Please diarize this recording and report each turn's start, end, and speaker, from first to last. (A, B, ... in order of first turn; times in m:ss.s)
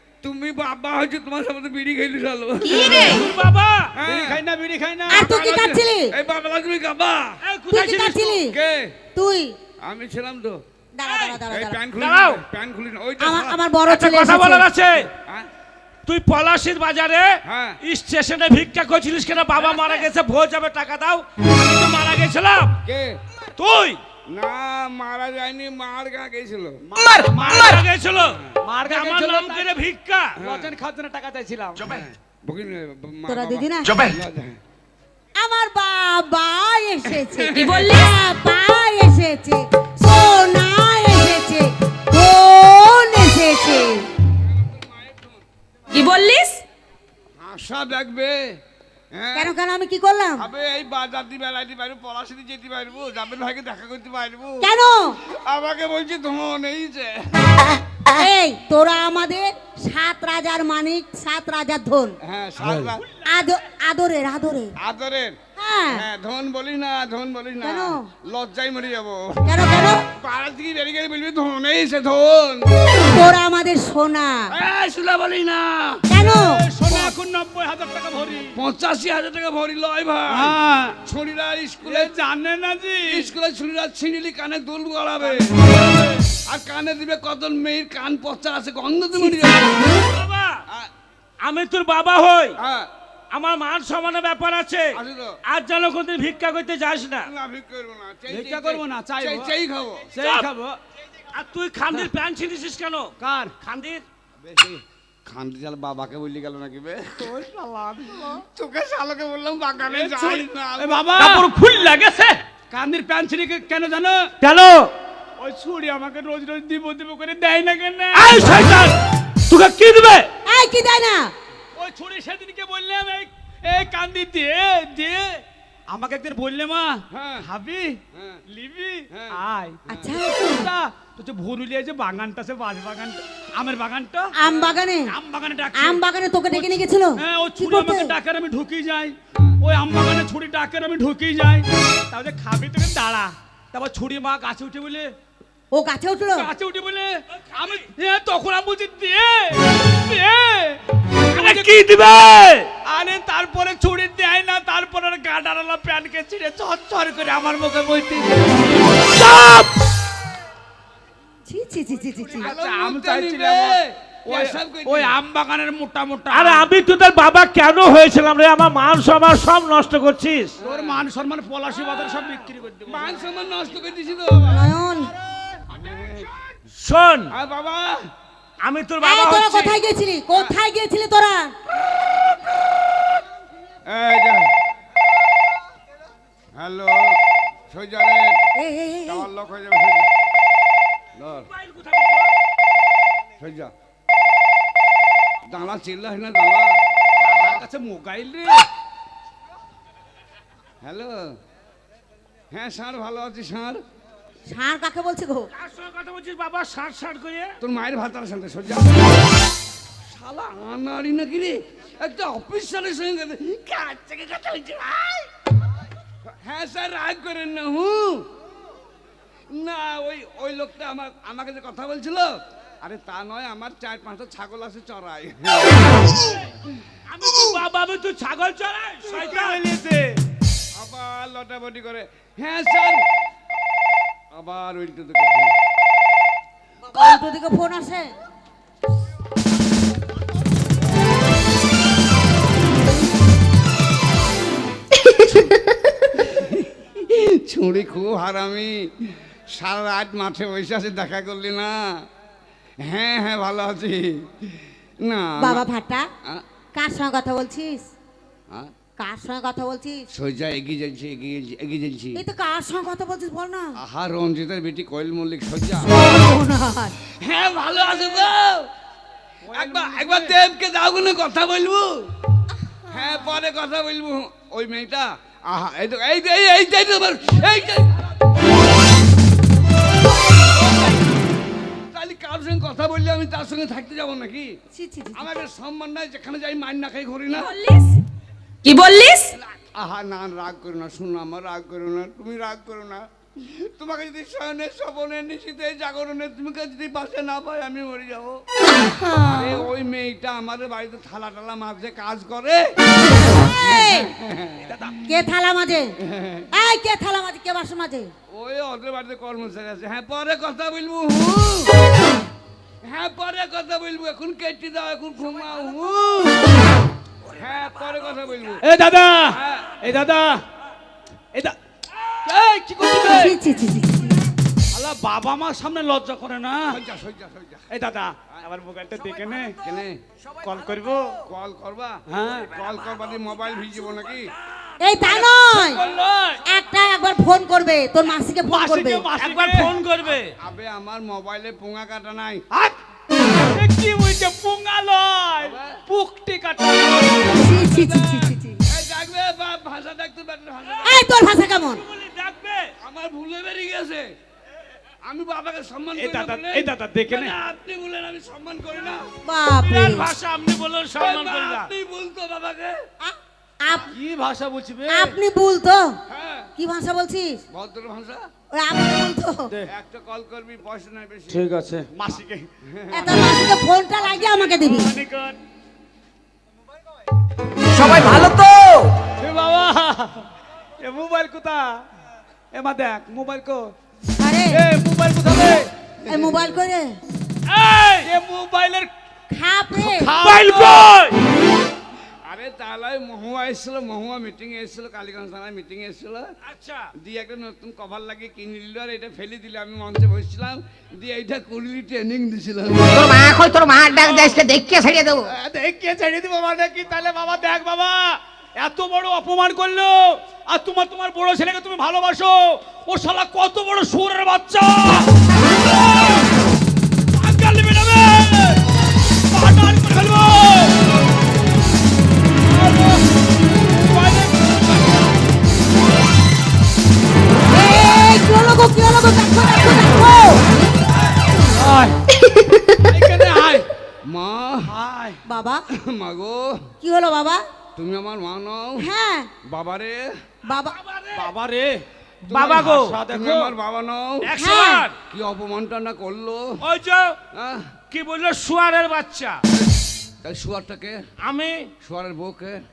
0:00.2-0:03.2 A
0:02.7-0:03.1 B
0:02.9-0:03.9 C
0:03.9-0:04.4 A
0:04.0-0:05.2 D
0:05.1-0:06.1 B
0:05.1-0:07.4 A
0:07.4-0:08.4 C
0:07.7-0:08.6 B
0:08.5-0:09.0 A
0:09.1-0:09.6 B
0:09.8-0:10.6 A
0:11.0-0:11.8 B
0:11.0-0:11.4 C
0:11.5-0:13.6 A
0:11.9-0:12.4 C
0:13.2-0:14.7 B
0:13.9-0:15.1 C
0:16.0-0:22.8 C
0:17.4-0:17.8 A
0:22.8-0:23.2 A
0:23.6-0:24.0 C
0:24.3-0:26.8 A
0:26.8-0:27.8 D
0:27.3-0:30.4 C
0:28.6-0:29.8 D
0:30.4-0:30.7 A
0:30.4-0:32.0 D
0:31.8-0:34.6 A
0:33.3-0:34.0 B
0:35.4-0:44.1 B
0:37.2-0:37.9 A
0:37.6-0:38.0 E
0:44.4-0:45.4 A
0:45.9-0:46.6 E
0:47.4-0:48.4 A
0:49.1-0:49.5 A
0:49.3-0:50.4 B
0:50.4-0:54.7 A
0:54.6-0:55.2 B
0:55.2-0:57.3 A
0:58.1-1:02.2 B
1:02.2-1:03.1 A
1:03.2-1:04.7 B
1:04.8-1:05.4 A
1:05.6-1:06.0 B
1:05.9-1:13.0 A
1:07.6-1:08.1 B
1:09.4-1:10.0 B
1:13.0-1:14.5 B
1:14.5-1:16.0 A
1:16.1-1:16.6 B
1:16.3-1:18.5 D
1:18.5-1:22.2 A
1:20.3-1:21.0 D
1:21.8-1:23.3 D
1:23.0-1:30.0 A
1:25.3-1:26.2 D
1:29.2-1:29.5 B
1:30.0-1:30.6 C
1:31.4-1:32.6 C
1:32.6-1:32.9 A
1:33.3-1:37.3 C
1:34.9-1:35.4 A
1:37.2-1:40.1 A
1:38.3-1:39.5 D
1:40.1-1:40.8 D
1:40.2-1:40.5 C
1:41.3-1:44.0 C
1:43.2-1:43.5 D
1:44.4-1:51.2 A
1:47.4-1:48.2 D
1:49.9-1:54.3 D
1:51.2-1:51.4 C
1:54.4-1:54.9 C
1:55.4-1:58.8 D
1:58.1-2:00.3 C
2:00.4-2:01.3 B
2:01.8-2:14.3 D
2:07.1-2:07.4 A
2:08.1-2:08.4 A
2:09.1-2:09.4 A
2:09.9-2:10.7 B
2:14.3-2:15.1 B
2:15.1-2:16.0 D
2:15.7-2:18.1 B
2:16.5-2:25.1 D
2:25.7-2:26.5 B
2:26.4-2:31.8 D
2:27.5-2:27.8 C
2:31.3-2:32.7 C
2:32.8-2:39.1 D
2:39.1-2:39.7 C
2:41.5-2:42.5 B
2:42.3-2:46.7 D
2:42.4-2:45.2 A
2:46.3-2:50.6 C
2:50.6-2:51.0 A
2:50.6-2:53.1 D
2:52.9-2:54.7 A
2:54.5-2:55.1 B
2:55.7-2:56.3 A
2:56.8-2:57.3 C
2:57.3-2:58.0 A
2:58.6-2:59.8 C
2:59.0-3:01.5 B
3:03.9-3:04.5 A
3:06.6-3:08.4 A
3:08.6-3:09.3 B
3:09.1-3:10.1 A
3:11.2-3:11.5 A
3:11.5-3:12.3 C
3:13.4-3:13.7 A
3:15.4-3:17.6 A
3:17.2-3:18.6 D
3:20.8-3:21.3 A
3:22.5-3:23.8 A
3:24.5-3:25.5 B
3:25.5-3:27.5 C
3:27.6-3:29.1 A
3:30.1-3:35.3 A
3:36.3-3:38.3 A
3:39.5-3:46.7 A
3:47.1-3:49.6 C
3:49.0-3:50.2 D
3:50.7-3:53.0 A
3:54.3-3:55.5 A
3:56.9-3:58.1 B
4:06.2-4:11.9 A
4:12.8-4:15.6 A
4:15.4-4:16.1 B
4:16.7-4:17.8 B
4:19.0-4:20.1 B
4:20.1-4:22.2 A
4:22.1-4:23.8 B
4:23.8-4:25.9 A
4:25.8-4:27.0 B
4:27.1-4:28.7 A
4:29.4-4:30.3 D
4:29.5-4:32.1 A
4:32.9-4:38.0 A
4:41.9-4:44.5 A
4:44.7-4:45.3 B
4:45.1-4:47.7 A
4:47.5-4:48.0 E
4:48.6-4:49.3 E
4:49.6-4:58.4 A
4:58.8-4:59.6 B
4:59.2-5:02.7 A
5:03.6-5:04.1 B
5:03.6-5:04.8 A
5:04.6-5:05.0 D
5:05.0-5:05.9 B
5:06.0-5:06.5 A
5:06.5-5:08.1 B
5:08.3-5:11.7 A
5:12.8-5:16.4 A
5:17.3-5:18.6 A
5:18.6-5:20.4 D
5:19.3-5:19.8 A
5:22.2-5:23.4 D
5:23.0-5:24.2 B
5:24.7-5:26.8 D
5:26.7-5:27.7 A
5:27.7-5:29.6 D
5:29.6-5:30.0 A
5:30.4-5:31.2 D
5:31.2-5:34.3 A
5:32.1-5:32.5 D
5:34.8-5:35.8 B
5:35.1-5:36.4 D
5:36.4-5:39.1 B
5:38.5-5:39.7 D
5:39.2-5:40.3 C
5:40.3-5:42.4 A
5:42.5-5:42.8 D
5:43.3-5:47.4 D
5:45.4-5:45.8 A
5:47.2-5:51.0 A
5:47.3-5:48.6 B
5:50.8-5:51.8 B
5:51.7-5:52.7 C
5:52.8-5:54.1 A
5:55.0-5:59.1 A
5:56.0-5:57.3 D
5:59.2-6:00.1 B
5:59.6-6:01.7 C
6:01.0-6:02.8 A
6:03.0-6:03.9 B
6:03.9-6:05.1 D
6:04.9-6:06.0 B
6:06.1-6:06.5 A
6:06.6-6:07.4 B
6:07.5-6:08.2 A
6:08.5-6:09.5 B
6:09.7-6:11.4 A
6:11.3-6:12.5 D
6:12.6-6:13.3 A
6:12.9-6:14.9 B
6:14.0-6:15.4 D
6:17.7-6:18.9 F
6:19.2-6:21.8 D
6:22.5-6:23.7 D
6:24.2-6:24.6 B
6:24.5-6:25.7 D
6:26.0-6:27.0 B
6:26.1-6:26.3 A
6:27.5-6:28.1 C
6:28.0-6:28.9 D
6:29.3-6:30.2 B
6:29.7-6:31.0 D
6:30.2-6:31.2 C
6:32.2-6:36.3 A
6:36.4-6:36.9 C
6:37.0-6:43.0 A
6:42.9-6:45.3 F
6:44.0-6:44.4 D
6:45.2-6:56.2 D
6:57.1-6:58.7 D
6:59.3-7:00.8 D
7:02.5-7:04.9 D
7:07.5-7:10.4 B
7:11.4-7:12.0 D
7:12.7-7:13.7 D
7:14.0-7:14.7 A
7:14.6-7:15.2 D
7:15.2-7:15.6 B
7:15.7-7:16.7 A
7:16.8-7:17.4 B
7:17.8-7:18.9 A
7:18.8-7:19.3 B
7:19.4-7:20.1 A
7:20.4-7:20.8 B
7:20.6-7:21.3 C
7:21.1-7:21.8 D
7:22.3-7:24.3 A
7:22.3-7:23.0 C
7:22.5-7:23.5 D
7:24.2-7:25.0 C
7:24.4-7:24.9 B
7:25.1-7:26.6 A
7:26.6-7:27.2 C
7:27.3-7:27.7 A
7:27.9-7:29.4 C
7:29.6-7:31.0 A
7:31.2-7:31.7 C
7:31.8-7:32.6 A